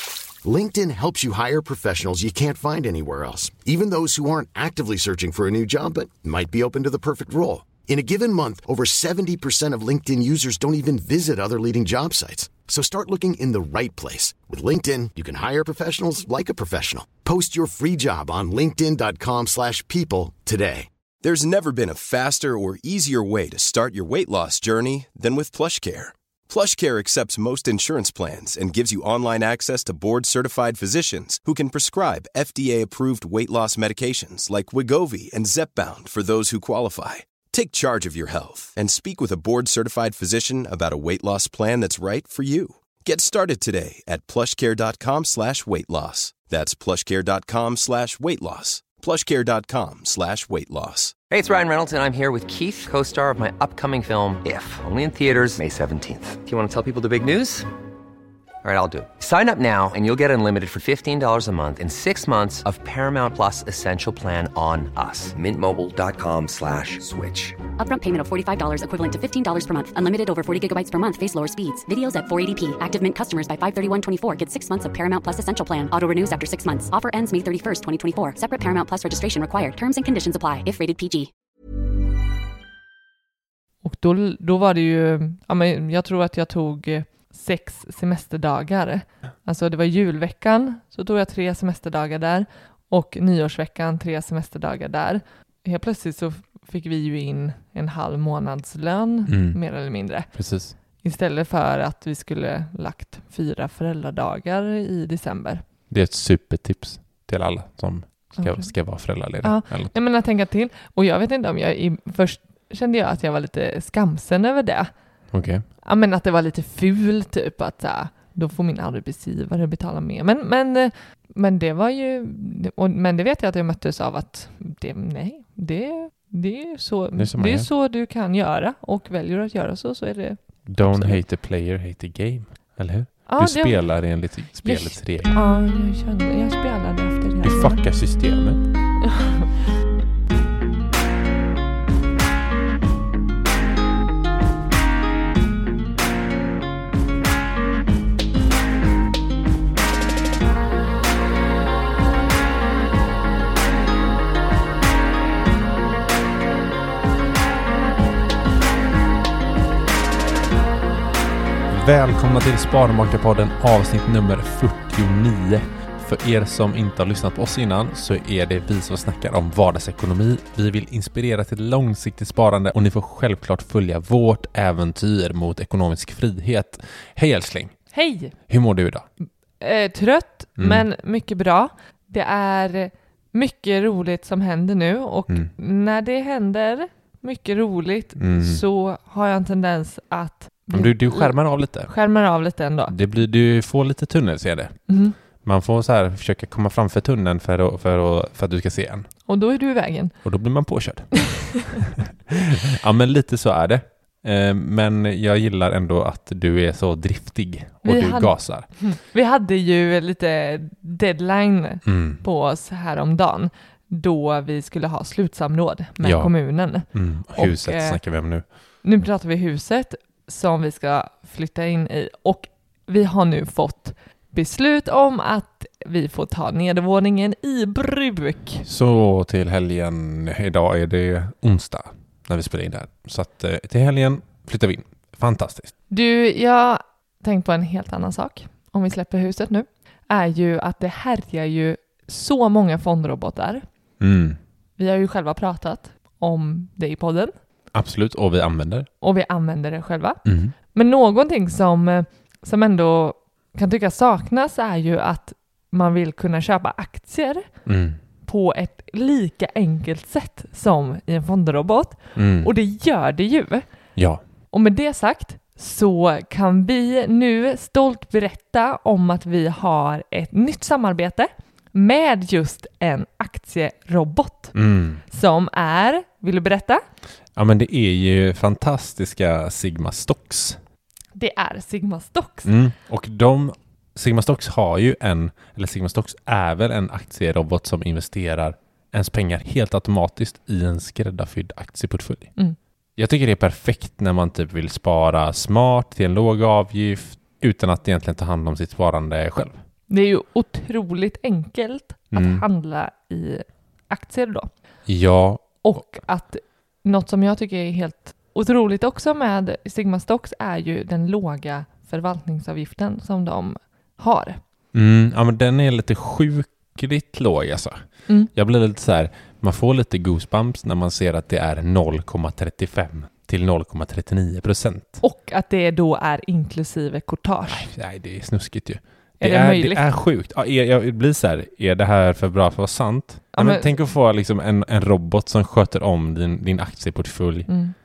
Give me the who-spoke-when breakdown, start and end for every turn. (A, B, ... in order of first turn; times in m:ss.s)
0:00.4-0:20.9 A
0:21.2-0:51.2 B
0:51.3-0:57.7 C
0:58.6-1:07.6 C
1:07.8-1:21.3 D
1:23.8-1:40.3 E
1:39.3-1:39.6 F
1:40.3-1:40.8 F
1:41.0-1:45.6 E
1:45.9-1:49.9 F
1:48.4-1:48.7 E
1:49.4-1:54.9 E
1:55.3-1:55.6 F
1:55.8-2:11.2 E
2:07.2-2:07.7 F
2:10.7-2:15.4 F
2:13.3-2:13.8 E
2:14.6-2:17.8 E
2:17.4-2:18.6 F
2:19.1-2:19.5 E
2:41.7-2:57.8 F
2:57.9-2:58.3 E
2:58.5-2:59.1 F
2:59.6-3:11.4 E
3:00.6-3:00.9 F
3:08.2-3:08.6 F
3:10.7-3:11.9 F
3:11.9-3:12.9 E
3:12.9-3:14.8 F
3:14.9-3:15.2 E
3:15.4-3:19.1 F
3:19.3-3:20.1 E
3:20.2-3:28.7 F
3:27.8-3:38.0 E
3:31.8-3:32.2 F
3:36.0-3:38.4 F
3:38.8-3:48.6 E
3:48.6-3:55.7 F
3:55.9-4:03.6 E
4:04.0-4:04.4 F
4:04.8-4:07.3 E
4:07.7-4:08.9 F
4:09.0-4:10.2 E
4:10.2-4:10.6 F
4:10.7-4:17.5 E
4:17.7-4:18.0 F
4:18.2-4:23.7 E
4:22.2-4:22.5 F
4:24.0-4:24.2 F
4:24.5-4:34.6 E
4:34.5-4:35.0 F
4:35.1-4:36.8 E
4:37.4-4:40.6 F
4:41.2-4:42.6 E
4:42.4-4:52.3 F
4:53.0-4:59.6 F
4:59.9-5:04.5 E
5:02.1-5:02.4 F
5:04.9-5:06.0 F
5:05.6-5:14.4 E
5:14.7-5:25.0 F
5:25.0-5:27.7 E
5:27.5-5:37.5 F
5:29.2-5:29.8 E
5:33.4-5:33.9 E
5:37.5-5:37.7 E